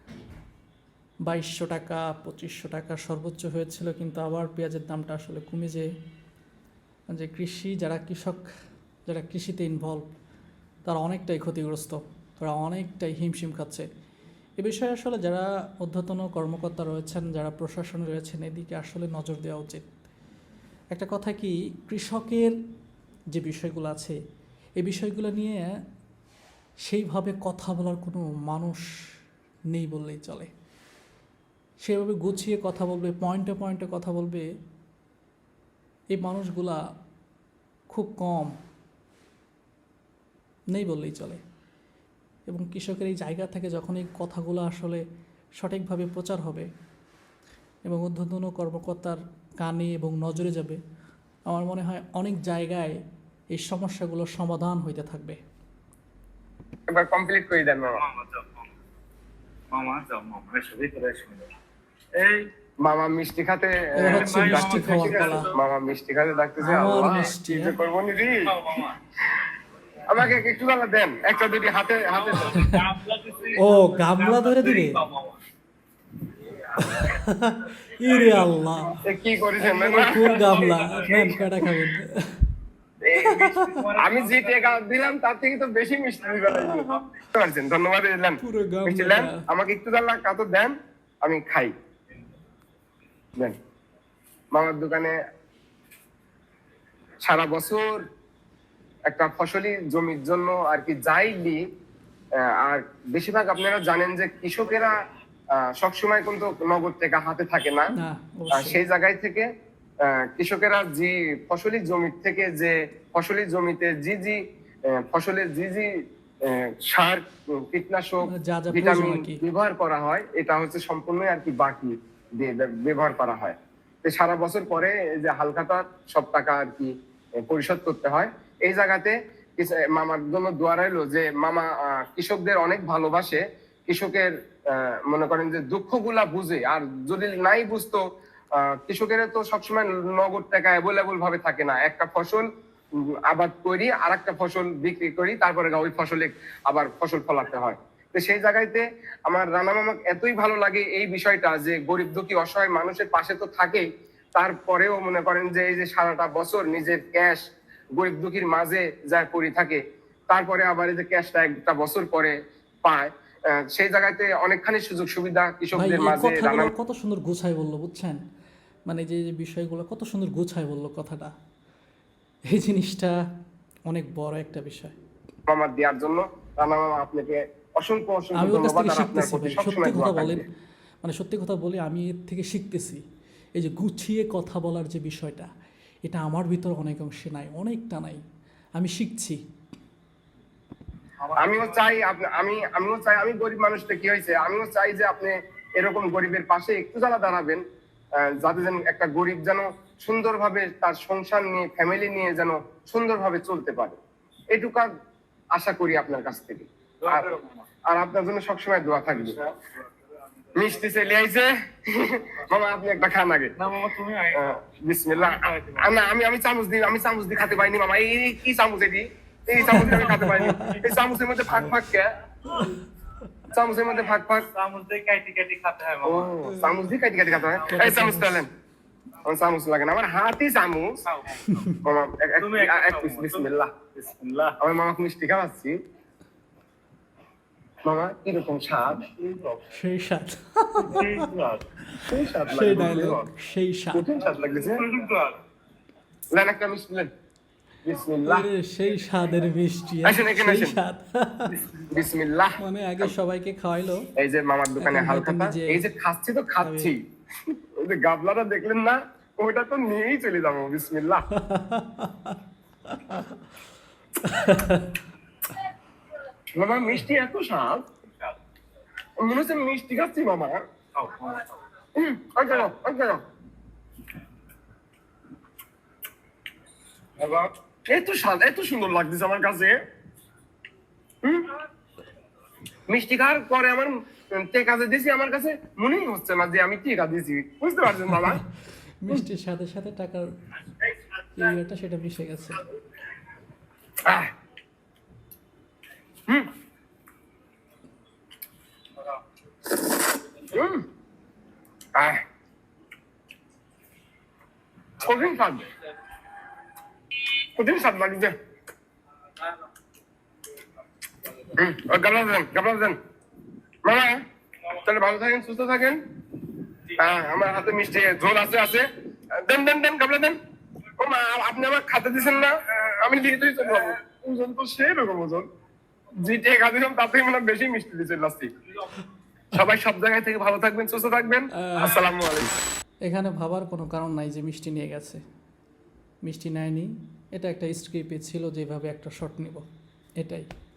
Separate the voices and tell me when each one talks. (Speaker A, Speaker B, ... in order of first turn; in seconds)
Speaker A: 1.2-5.8, 7.1-8.4, 9.1-10.1, 10.8-13.9, 14.6-19.8, 20.9-22.5, 23.3-24.2, 24.8-25.7, 26.8-28.8, 29.7-30.5, 31.8-34.4, 36.1-36.8, 37.9-38.5, 40.7-41.4, 42.5-45.0, 45.6-46.7, 47.9-50.8, 51.5-52.9, 53.5-55.4, 64.0-65.5, 66.6-67.7, 72.5-72.8, 73.6-75.0, 76.8-79.0, 79.6-82.5, 83.2-83.8, 86.5-87.0, 88.4-89.5, 108.0-108.8, 118.3-119.4, 165.8-168.2, 168.9-171.3, 172.5-173.2, 173.9-175.0, 178.4-180.4, 181.0-183.0, 183.6-185.5, 186.0-188.2, 188.8-189.4, 219.6-220.8, 226.5-227.0, 227.6-228.5, 231.5-231.8, 239.7-241.2, 242.5-244.0, 248.3-251.6, 252.6-254.1, 254.8-255.8, 256.6-256.9, 261.3-263.4, 264.2-264.9, 289.0-290.3, 291.3-292.6, 331.5-332.0, 333.1-335.2, 336.2-339.6, 340.2-340.4
Speaker B: 56.9-58.0, 62.8-68.5, 70.1-72.6, 79.0-80.4, 84.0-91.7, 94.5-95.2, 97.2-98.0, 99.1-101.6, 102.4-105.0, 105.5-107.9, 108.5-109.5, 110.0-115.9, 116.4-126.9, 127.5-138.0, 138.5-142.4, 143.0-157.4, 158.0-166.7, 175.5-180.4, 191.3-197.6, 198.2-204.0, 204.5-204.9, 205.5-209.5, 210.5-213.5, 214.3-222.1, 223.5-224.5, 226.0-228.5, 229.2-231.0, 231.8-233.7, 234.6-235.8, 237.8-239.1, 242.1-243.3, 243.9-244.8, 246.3-247.1, 247.8-248.5, 250.0-250.8, 251.9-253.1, 254.2-261.2, 266.5-267.8, 269.2-270.6, 272.0-273.2, 277.2-279.8, 281.2-281.5, 282.9-288.4, 294.0-294.3, 300.5-300.8, 301.9-302.2, 305.0-305.6, 307.6-308.3, 311.5-313.0, 313.8-316.0, 316.9-320.4, 321.0-325.5, 326.2-328.5, 329.5-332.5
Speaker C: 57.9-58.7, 59.7-61.5, 62.2-62.5, 64.0-65.6, 68.5-69.0, 72.1-75.4, 76.8-77.1, 78.0-78.5, 79.8-81.7, 83.0-84.8, 191.2-192.1, 207.0-207.6, 213.6-214.6, 215.2-215.9, 219.7-220.8, 224.1-226.3, 231.1-231.6, 232.4-234.6, 239.1-239.7, 240.8-241.7, 244.3-245.4, 271.0-271.5